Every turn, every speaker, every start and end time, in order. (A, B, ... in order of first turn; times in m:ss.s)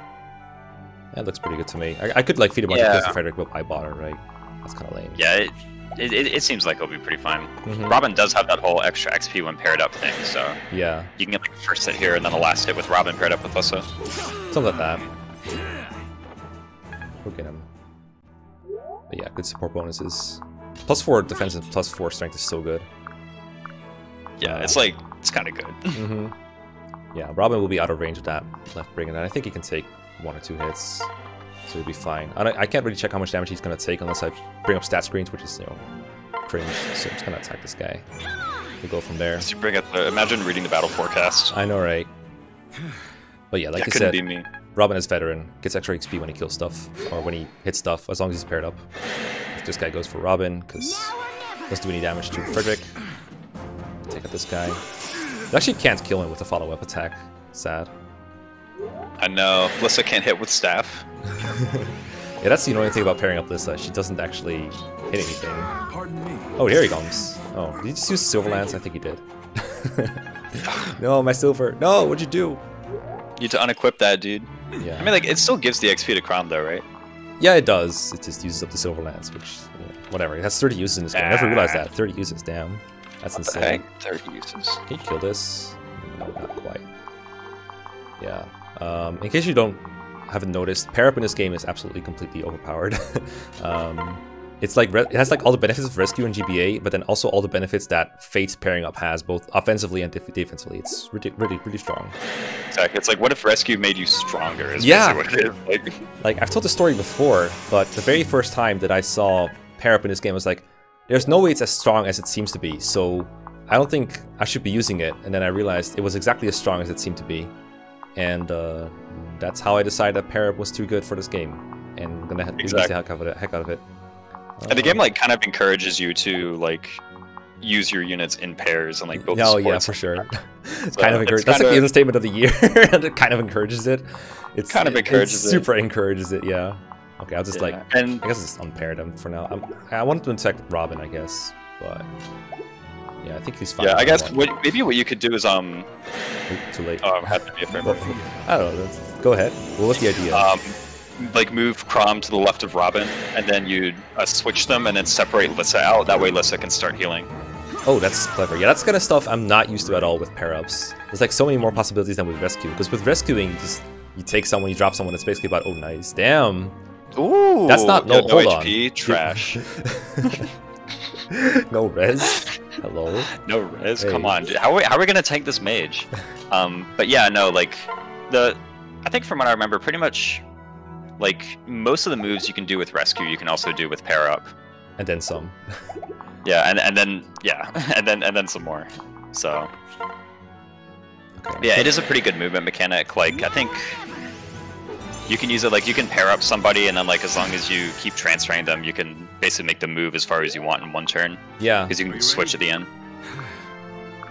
0:01.1-0:05.2 A
0:02.7-0:03.2 B
0:05.1-0:10.6 B
0:07.6-0:08.0 A
0:10.7-0:11.1 A
0:11.2-0:13.8 B
0:14.5-0:15.0 A
0:15.5-0:15.9 C
0:17.2-0:17.7 A
0:19.1-0:22.9 A
0:24.4-0:26.0 B
0:24.4-0:24.8 A
0:25.9-0:26.4 A
0:27.1-0:31.1 A
0:31.7-0:35.8 A
0:36.4-0:38.0 A
0:38.8-0:39.5 A
0:39.4-0:41.5 B
0:41.5-0:42.1 A
0:43.5-0:44.2 A
0:43.8-0:44.5 B
0:44.7-0:48.8 A
0:49.5-0:52.9 A
0:54.1-0:54.8 A
0:55.5-0:57.9 A
0:59.2-1:01.0 B
1:01.4-1:01.9 C
1:01.4-1:05.7 A
1:05.9-1:06.8 C
1:06.6-1:12.6 A
1:10.6-1:11.0 B
1:13.4-1:16.8 B
1:14.8-1:15.1 A
1:17.4-1:23.8 A
1:21.1-1:21.8 B
1:23.4-1:24.8 B
1:24.9-1:26.8 A
1:28.2-1:42.2 A
1:42.7-1:46.0 B
1:44.8-1:45.5 A
1:46.2-1:57.5 A
1:58.2-2:03.8 A
2:02.6-2:02.9 B
2:04.6-2:05.0 A
2:04.7-2:07.0 B
2:07.6-2:10.2 B
2:09.1-2:22.1 A
2:10.9-2:11.9 B
2:14.7-2:15.7 B
2:17.5-2:18.2 B
2:23.2-2:24.4 A
2:23.8-2:25.9 B
2:26.5-2:27.1 A
2:27.0-2:28.1 B
2:27.8-2:30.5 A
2:27.8-2:28.4 C
2:30.3-2:37.3 B
2:37.8-2:46.8 A
2:47.1-2:49.6 B
2:47.7-2:50.5 A
2:51.3-2:53.3 A
2:52.4-2:52.6 B
2:53.3-3:00.4 B
2:54.0-2:54.4 A
3:01.2-3:04.5 B
3:05.0-3:05.8 A
3:06.4-3:09.7 B
3:11.4-3:11.9 A
3:11.6-3:14.0 B
3:15.3-3:22.9 B
3:21.6-3:22.0 A
3:22.0-3:22.6 C
3:23.3-3:23.6 C